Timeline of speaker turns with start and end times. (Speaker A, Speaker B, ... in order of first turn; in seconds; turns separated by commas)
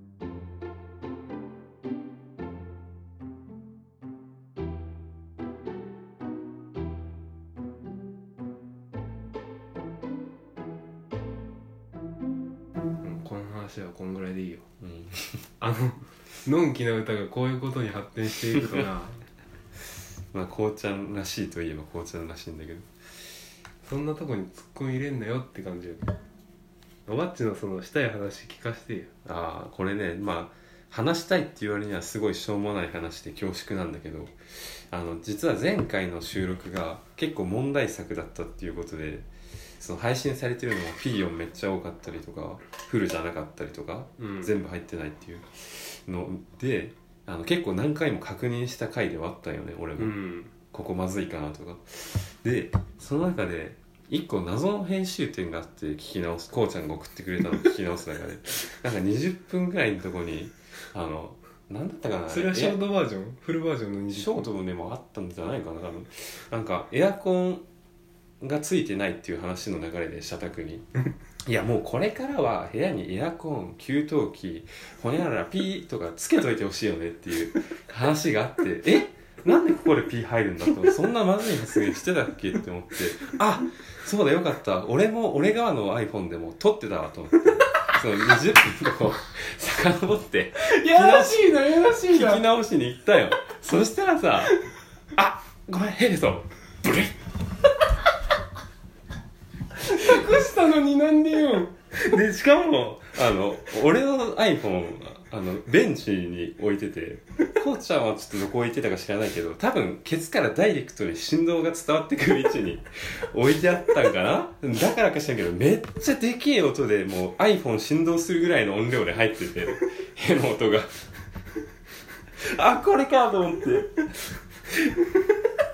Speaker A: 13.0-14.7, Speaker B: 14.8-15.4, Speaker A: 15.6-19.2, Speaker B: 18.6-18.8, Speaker B: 20.3-22.9, Speaker A: 23.8-26.2, Speaker A: 27.1-29.1, Speaker B: 29.2-39.3, Speaker B: 39.8-50.1, Speaker A: 44.2-44.5, Speaker A: 50.0-50.5, Speaker B: 50.7-62.8, Speaker A: 62.3-64.5, Speaker B: 64.1-67.6, Speaker B: 68.4-70.8, Speaker B: 71.4-94.6, Speaker A: 90.6-92.4, Speaker B: 95.2-97.1, Speaker A: 99.7-101.9, Speaker B: 102.0-121.0, Speaker B: 122.4-124.1, Speaker B: 124.7-124.9